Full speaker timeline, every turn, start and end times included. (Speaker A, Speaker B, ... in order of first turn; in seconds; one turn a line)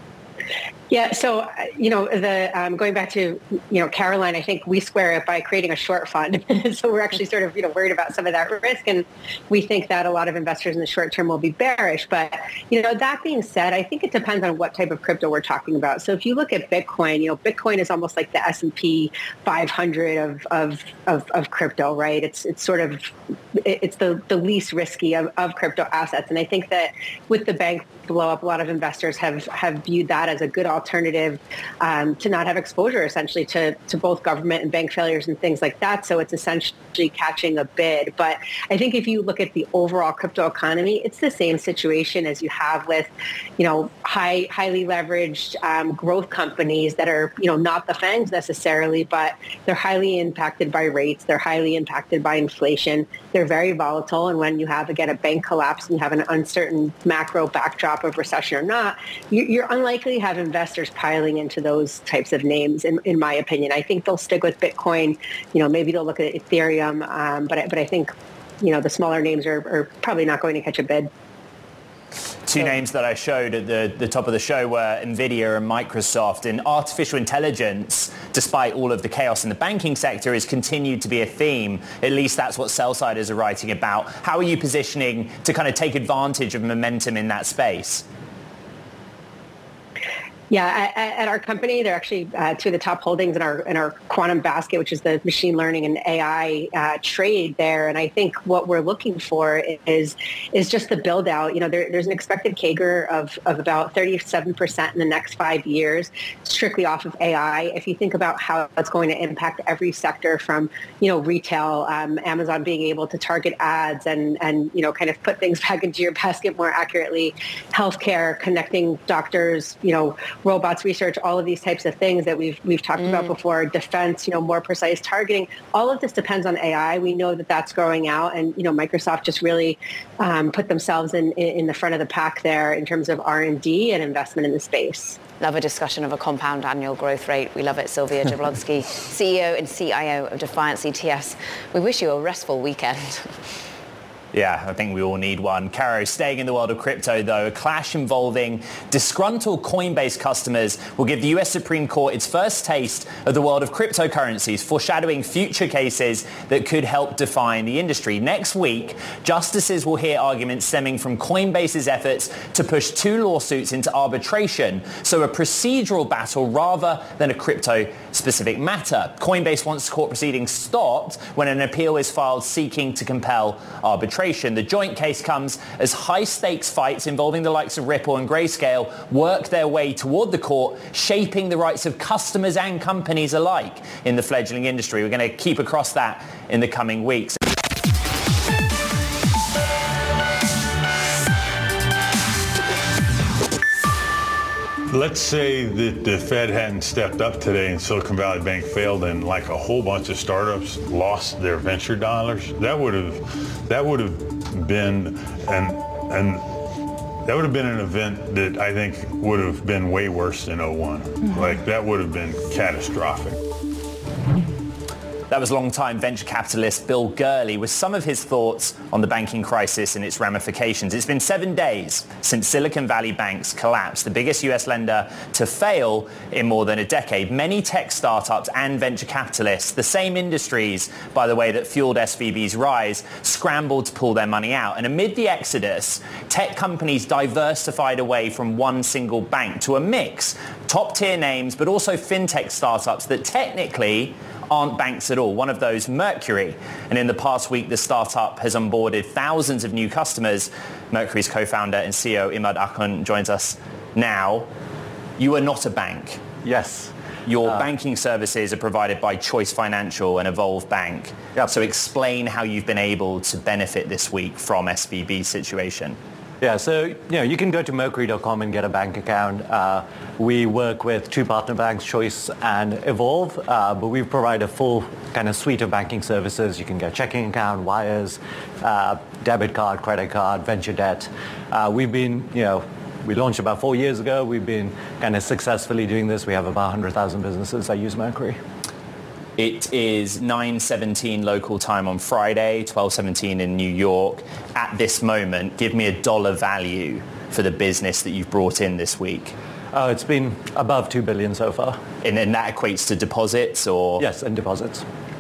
Speaker A: 0.9-71.1
Speaker B: 72.5-88.0
Speaker A: 90.5-135.2
Speaker C: 135.4-143.3
Speaker B: 144.3-187.4
Speaker D: 194.9-206.4
Speaker D: 207.2-213.4
Speaker B: 215.3-254.5
Speaker B: 255.2-256.2
Speaker E: 256.4-256.9
Speaker B: 257.3-266.0
Speaker E: 266.4-288.4
Speaker B: 289.4-299.3
Speaker E: 299.7-301.8
Speaker B: 302.0-304.0
Speaker E: 304.0-304.8